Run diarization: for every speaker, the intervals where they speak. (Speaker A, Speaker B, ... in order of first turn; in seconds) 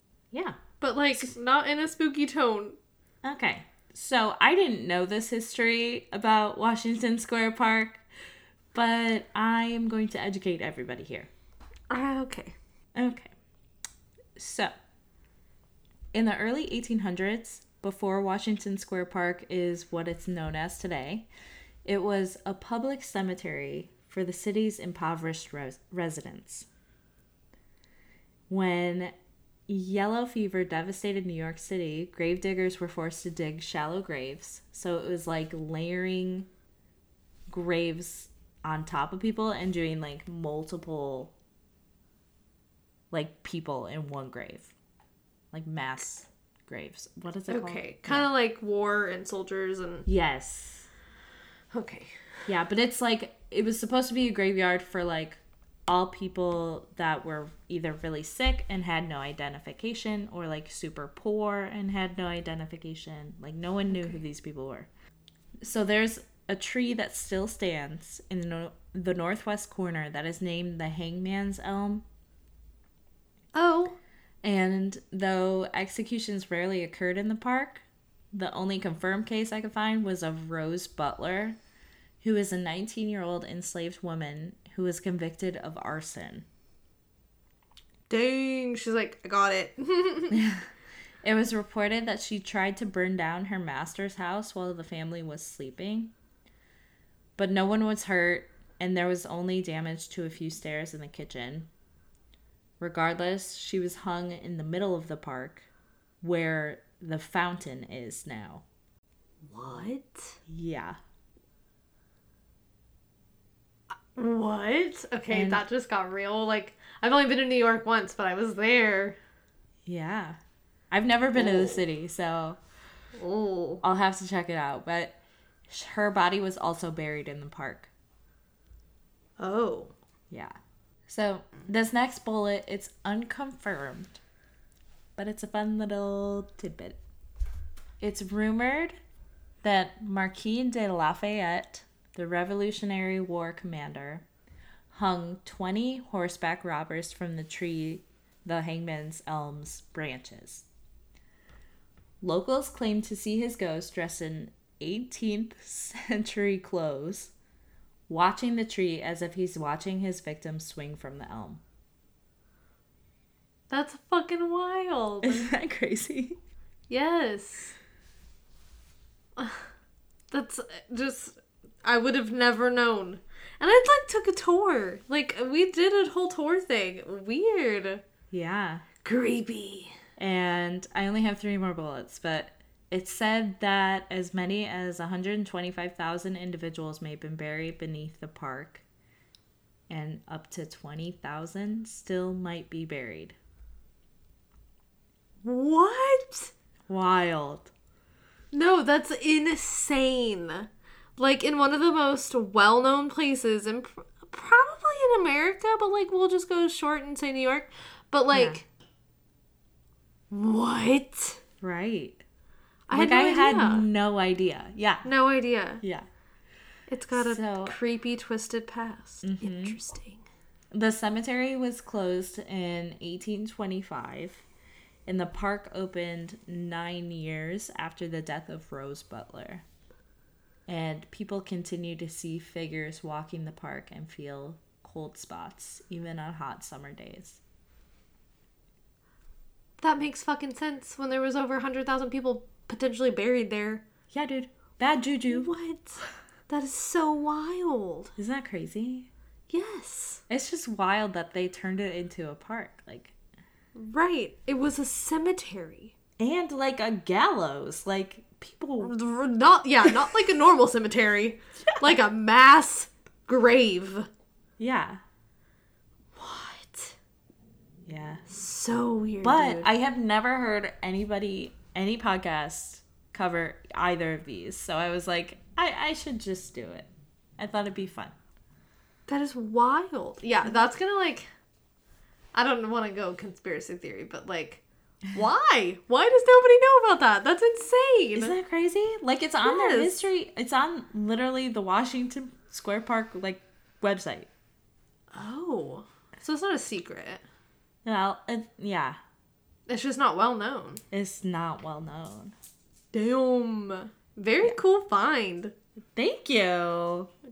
Speaker A: 0.3-0.6, 3.2-8.0, 8.7-11.3, 12.9-13.3, 14.3-14.7, 16.1-21.3, 21.8-26.7, 28.5-29.1, 29.7-36.5, 37.5-41.3, 43.1-44.7, 45.5-48.3, 50.0-50.9, 52.5-64.9, 65.6-72.0, 74.4-81.6, 82.2-86.5, 90.3-90.7, 91.2-96.1, 97.4-101.7, 102.8-105.7, 106.2-108.6, 110.5-111.0, 115.3-115.6, 119.8-120.4, 120.9-122.6, 123.8-127.9, 130.3-130.6, 131.1-134.2, 135.2-137.0, 138.0-139.0, 139.6-144.2, 144.9-150.7, 152.2-157.3, 158.1-161.6, 165.2-166.4, 178.3-178.8, 180.2-188.8, 189.9-193.3, 196.9-197.7, 208.3-208.6, 211.6-212.2, 212.9-215.1, 215.8-216.1, 217.1-217.8, 219.2-219.8, 220.7-224.4, 225.1-229.6, 230.7-237.4, 244.1-245.5, 248.2-249.1, 250.3-253.1, 256.2-258.9, 261.7-262.0, 264.6-265.0, 267.9-268.2, 269.2-278.1, 288.1-294.3, 297.8-299.0, 300.9-302.3, 305.9-307.1
Speaker B: 0.8-2.8, 11.9-12.6, 47.5-50.1, 51.7-52.1, 73.5-74.0, 88.1-90.4, 109.5-110.4, 114.1-119.2, 121.3-121.8, 123.2-123.8, 129.4-129.9, 163.7-165.5, 166.9-167.8, 169.4-169.7, 170.3-178.0, 179.0-179.9, 195.4-196.5, 198.5-208.7, 210.3-211.4, 212.9-213.9, 215.0-215.8, 216.9-220.2, 239.8-243.8, 245.3-248.1, 249.5-250.2, 253.7-255.9, 258.8-264.1, 266.1-267.0, 268.3-269.7, 279.1-281.3, 282.3-288.3, 289.4-289.9, 295.1-297.2, 299.7-300.8, 302.9-305.5